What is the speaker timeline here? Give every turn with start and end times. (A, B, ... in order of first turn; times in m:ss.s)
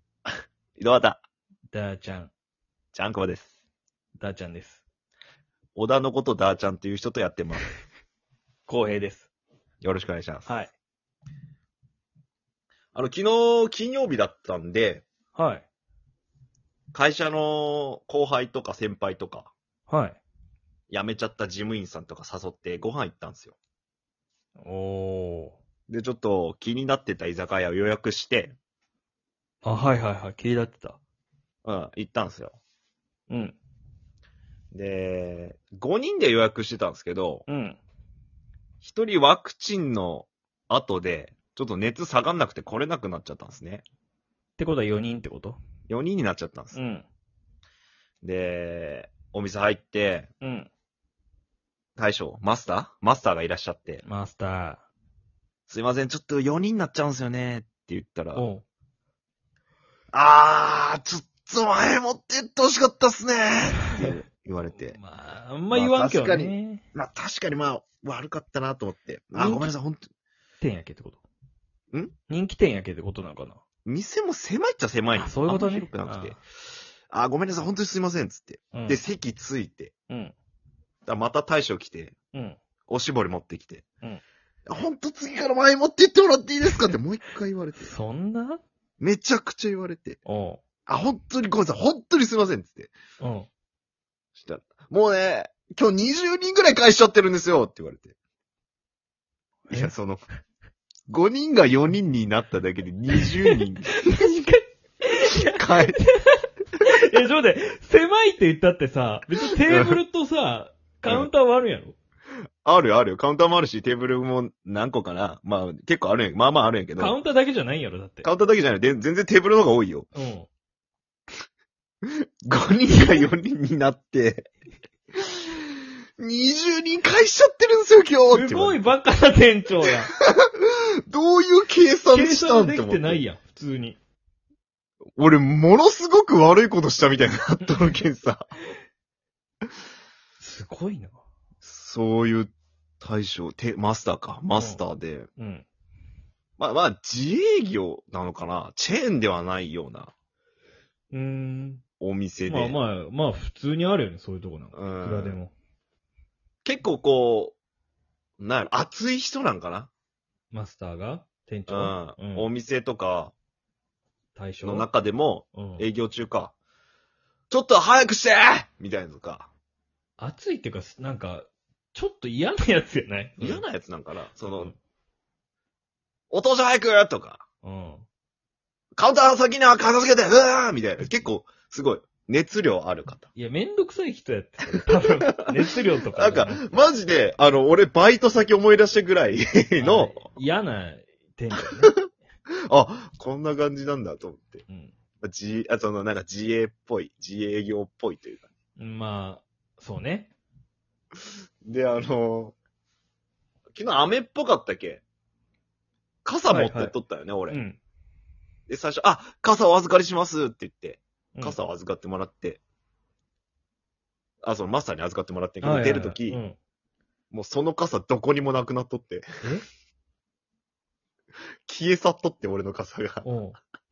0:00.8-0:01.2 A
0:01.7-0:02.3 B
0:02.9-0:03.5 A
0:04.2-0:04.8 B
0:05.8-0:07.7 A
0:08.6-0:09.3 B
0:09.8-0:10.5 A
0:10.4-0:10.7 B
0:12.9-0:15.0 A
0:15.3-0:15.6 B
0:16.9-0:19.5 A
0:19.9-0:20.2 B
0:20.9-0:23.6 A
0:24.6-0:25.6 B
0:25.9-0:28.6 A
0:29.6-0:31.0 B
0:31.6-0:32.6 A
0:33.3-0:33.6 B
0:34.7-0:37.4 A
0:37.5-0:37.8 B
0:38.8-0:43.8 A
0:44.6-0:45.6 B
0:45.9-0:46.8 A
0:46.7-0:47.0 B
0:48.2-0:50.3 A
0:50.4-0:50.7 B
0:52.0-0:54.0 A
0:54.0-0:54.8 B
0:55.7-0:58.5 A
0:58.3-0:58.6 B
1:00.1-1:05.0 A
1:04.7-1:06.8 B
1:05.7-1:10.0 A
1:09.3-1:09.7 B
1:10.6-1:11.2 B
1:12.3-1:13.6 B
1:13.8-1:16.4 A
1:15.1-1:16.4 B
1:17.1-1:19.9 A
1:18.7-1:19.0 B
1:20.1-1:20.3 B
1:21.0-1:22.1 A
1:22.3-1:22.6 B
1:22.9-1:23.8 A
1:24.7-1:27.9 A
1:27.8-1:28.6 B
1:29.0-1:30.2 A
1:30.2-1:30.6 B
1:30.9-1:32.9 A
1:33.2-1:33.5 B
1:34.4-1:38.1 A
1:39.7-1:39.9 B
1:39.7-1:40.2 A
1:41.1-1:44.4 A
1:43.2-1:51.9 B
1:45.3-1:46.0 A
1:49.7-1:50.0 A
1:52.6-1:57.2 A
1:57.0-1:58.2 B
1:58.2-2:00.1 A
2:00.1-2:00.5 B
2:02.0-2:04.5 A
2:05.1-2:05.7 A
2:06.2-2:08.8 A
2:08.3-2:10.1 B
2:10.1-2:13.2 A
2:12.1-2:14.0 B
2:15.2-2:18.5 A
2:20.4-2:21.2 B
2:21.6-2:25.3 A
2:24.6-2:24.8 B
2:25.4-2:25.6 B
2:26.6-2:30.1 A
2:31.1-2:31.8 B
2:32.0-2:32.8 A
2:32.4-2:35.5 B
2:34.7-2:35.4 A
2:36.6-2:37.6 A
2:38.4-2:39.9 A
2:40.5-2:42.4 B
2:41.7-2:43.3 A
2:44.3-2:44.9 B
2:44.6-2:46.5 A
2:45.5-2:45.9 B
2:47.5-2:49.5 A
2:50.2-2:53.6 B
2:53.4-2:54.7 A
2:56.3-2:57.4 A
2:57.6-2:58.0 B
2:59.0-3:03.3 A
3:03.3-3:06.8 B
3:04.7-3:05.6 A
3:06.1-3:10.2 A
3:09.8-3:12.0 B
3:12.7-3:14.6 A
3:14.7-3:14.9 B
3:15.2-3:18.5 A
3:18.8-3:20.3 B
3:21.6-3:22.5 A
3:23.7-3:25.0 A
3:26.2-3:27.6 A
3:26.5-3:26.9 B
3:27.5-3:27.8 B
3:28.7-3:32.6 A
3:34.4-3:36.4 A
3:35.6-3:36.6 B
3:37.3-3:39.2 A
3:41.6-3:43.2 A
3:43.2-3:43.6 B